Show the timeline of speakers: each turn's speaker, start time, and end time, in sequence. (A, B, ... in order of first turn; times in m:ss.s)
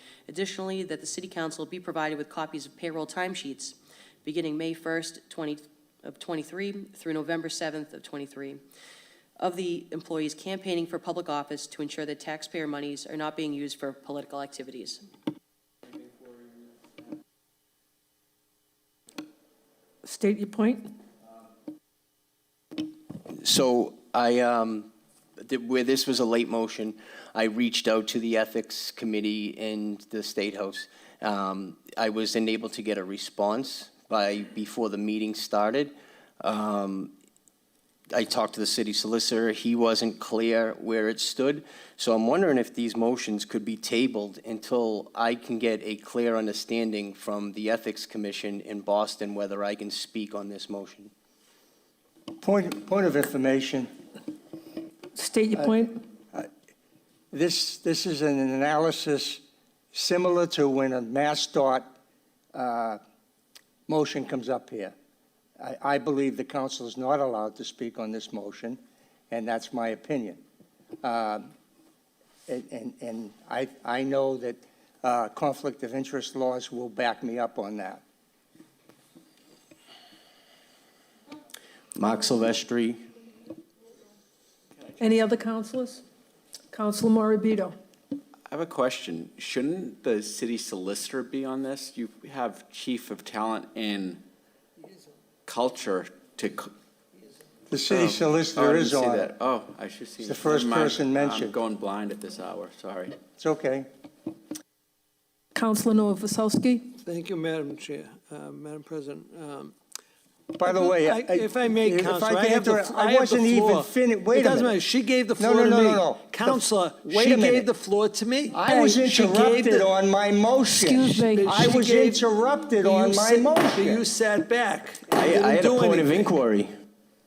0:00.3-0:08.6 A
0:09.4-0:15.0 A
0:20.0-0:20.9 B
0:23.3-0:37.1 C
0:38.1-0:51.1 C
0:52.4-0:53.9 D
0:55.1-0:56.0 B
0:57.3-0:59.4 D
0:59.9-1:01.9 D
1:02.5-1:03.0 D
1:03.9-1:04.9 D
1:05.6-1:08.8 D
1:09.3-1:10.4 D
1:11.0-1:11.5 D
1:12.5-1:18.0 D
1:22.0-1:23.0 C
1:25.0-1:26.0 B
1:26.7-1:27.8 B
1:28.5-1:34.2 E
1:35.4-1:36.7 E
1:37.7-1:39.3 D
1:37.9-1:43.2 E
1:40.2-1:41.6 D
1:43.4-1:43.9 D
1:45.5-1:46.9 B
1:47.0-1:49.7 F
1:50.5-1:54.7 D
1:50.6-1:59.9 F
1:55.4-1:57.7 D
1:58.5-2:04.0 D
2:00.7-2:01.5 B
2:00.9-2:06.3 F
2:05.1-2:06.7 C